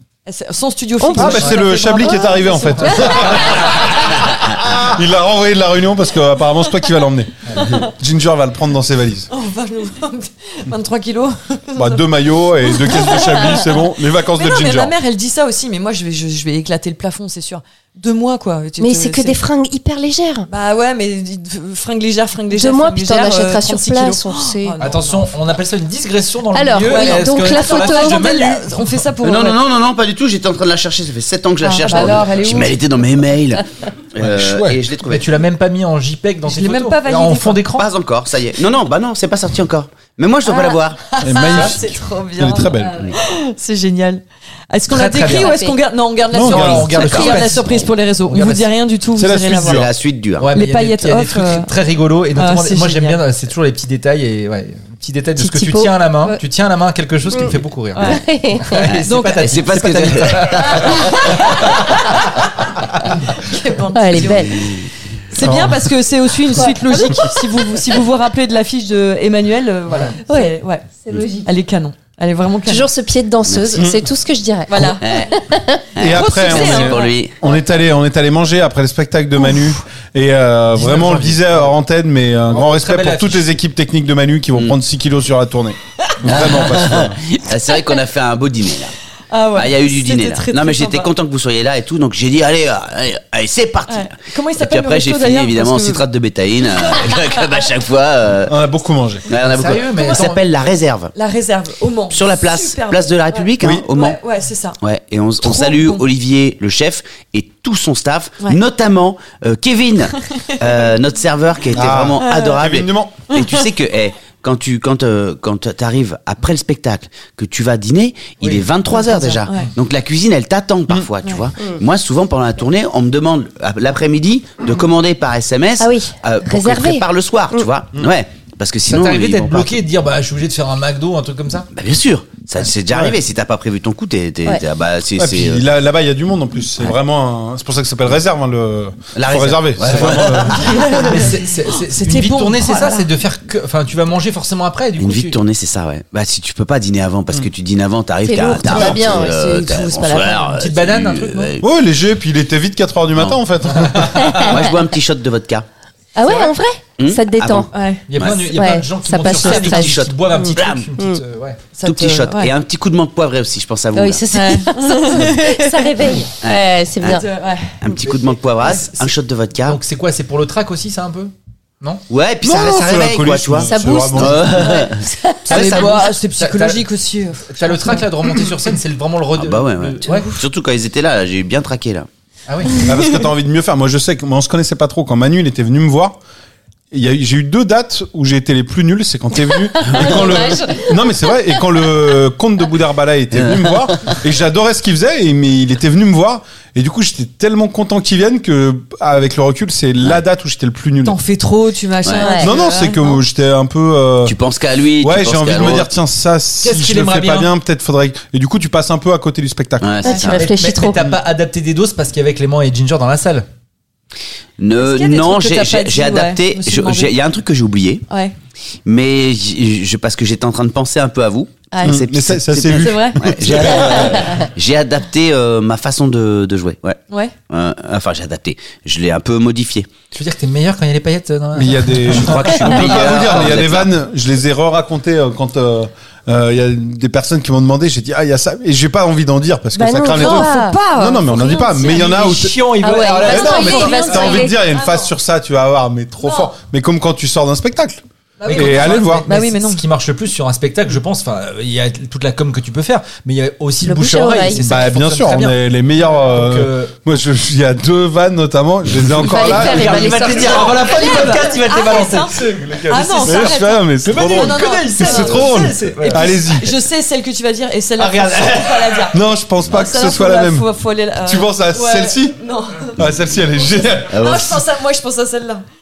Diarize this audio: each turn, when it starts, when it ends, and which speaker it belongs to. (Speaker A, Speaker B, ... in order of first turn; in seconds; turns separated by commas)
Speaker A: 0.2-3.5, Speaker B: 1.0-2.2, Speaker C: 1.1-9.3, Speaker D: 2.9-3.9, Speaker A: 9.3-12.1, Speaker C: 11.8-14.9, Speaker A: 12.6-13.7, Speaker A: 14.3-19.4, Speaker B: 18.8-20.5, Speaker A: 20.5-25.4, Speaker B: 22.5-24.8, Speaker D: 24.8-29.0, Speaker B: 26.5-28.4, Speaker A: 26.9-29.6, Speaker E: 29.2-35.3, Speaker A: 31.6-32.8, Speaker C: 34.2-34.8, Speaker D: 34.6-37.9, Speaker A: 36.5-37.6, Speaker E: 37.7-41.0, Speaker A: 40.5-49.9, Speaker C: 41.2-43.1, Speaker D: 44.9-45.6, Speaker B: 45.2-45.8, Speaker C: 46.3-47.2, Speaker D: 46.4-48.7, Speaker B: 47.0-47.5, Speaker C: 49.1-49.9, Speaker E: 49.6-50.5, Speaker D: 50.4-62.0, Speaker A: 50.5-51.7, Speaker A: 52.4-53.2, Speaker B: 55.4-55.9, Speaker B: 57.3-58.9, Speaker A: 58.0-58.2, Speaker E: 58.9-61.0, Speaker A: 59.0-59.6, Speaker A: 60.6-62.3, Speaker A: 63.2-64.7, Speaker B: 63.9-64.7, Speaker A: 65.3-70.9, Speaker C: 65.4-65.9, Speaker B: 66.5-67.9, Speaker B: 70.2-71.5, Speaker A: 71.4-72.9, Speaker B: 72.7-75.9, Speaker E: 73.5-73.9, Speaker C: 73.8-74.0, Speaker A: 74.7-75.2, Speaker E: 75.0-75.4, Speaker E: 76.0-77.5, Speaker C: 76.0-87.2, Speaker A: 76.0-77.2, Speaker D: 80.7-81.7, Speaker D: 82.5-83.5, Speaker E: 86.2-88.9, Speaker A: 89.3-91.1, Speaker E: 89.5-98.6, Speaker A: 93.9-96.0, Speaker C: 98.5-99.4, Speaker E: 99.3-101.1, Speaker D: 99.4-100.4, Speaker A: 101.1-104.8, Speaker E: 102.1-104.2, Speaker C: 103.6-103.9, Speaker E: 104.8-129.7, Speaker A: 105.4-106.0, Speaker C: 111.7-113.1, Speaker A: 112.2-112.6, Speaker A: 113.3-113.6, Speaker A: 118.9-119.7, Speaker B: 125.8-127.6, Speaker D: 128.9-131.7, Speaker E: 131.7-135.6, Speaker C: 135.2-140.9, Speaker E: 139.1-140.8, Speaker D: 140.0-140.2, Speaker A: 140.6-141.3, Speaker D: 140.9-145.4, Speaker A: 141.9-143.1, Speaker E: 145.0-151.7, Speaker B: 148.2-150.3, Speaker A: 149.5-150.5, Speaker D: 150.6-151.5, Speaker C: 151.6-154.5, Speaker D: 153.7-154.5, Speaker B: 154.2-154.7, Speaker E: 154.4-155.7, Speaker B: 156.2-157.7, Speaker E: 157.0-158.6, Speaker A: 157.7-158.0, Speaker D: 158.1-161.6, Speaker B: 158.5-161.2, Speaker E: 159.3-160.9, Speaker A: 161.8-162.5, Speaker E: 161.8-164.2, Speaker B: 163.9-167.3, Speaker A: 164.3-166.2, Speaker A: 167.0-169.1, Speaker E: 167.8-169.8, Speaker D: 169.7-172.0, Speaker E: 172.1-176.1, Speaker C: 172.4-174.6, Speaker B: 173.6-176.0, Speaker A: 175.5-178.1, Speaker D: 175.5-176.8, Speaker D: 177.5-180.3, Speaker E: 179.3-182.1, Speaker A: 180.0-180.4, Speaker D: 182.5-182.8, Speaker C: 182.8-186.2, Speaker C: 186.9-201.2, Speaker B: 189.8-190.9, Speaker E: 189.8-190.6, Speaker E: 193.3-194.2, Speaker A: 201.0-203.2, Speaker B: 202.2-202.5, Speaker C: 202.4-204.3, Speaker E: 204.2-205.9, Speaker C: 205.0-210.0, Speaker D: 206.6-207.5, Speaker E: 209.8-210.5, Speaker B: 210.0-211.0, Speaker D: 210.3-213.4, Speaker E: 214.6-218.0, Speaker A: 214.8-217.1, Speaker A: 218.1-218.3, Speaker E: 218.8-229.9, Speaker A: 221.7-222.0, Speaker C: 221.8-224.2, Speaker A: 222.7-224.2, Speaker D: 230.1-233.5, Speaker C: 231.5-242.6, Speaker E: 232.1-233.9, Speaker B: 239.7-240.8, Speaker A: 240.1-242.1, Speaker D: 241.8-244.4, Speaker B: 242.8-244.6, Speaker A: 242.9-245.1, Speaker C: 243.2-249.3, Speaker A: 246.2-246.5, Speaker A: 248.4-249.8, Speaker D: 248.4-256.9, Speaker B: 253.8-254.7, Speaker C: 254.6-260.3, Speaker B: 259.2-261.4, Speaker D: 259.3-266.3, Speaker A: 260.2-269.2, Speaker C: 262.3-266.7, Speaker D: 268.0-269.1, Speaker C: 269.1-270.7, Speaker A: 269.7-273.0, Speaker C: 271.2-274.6, Speaker A: 273.8-275.6, Speaker E: 274.1-274.6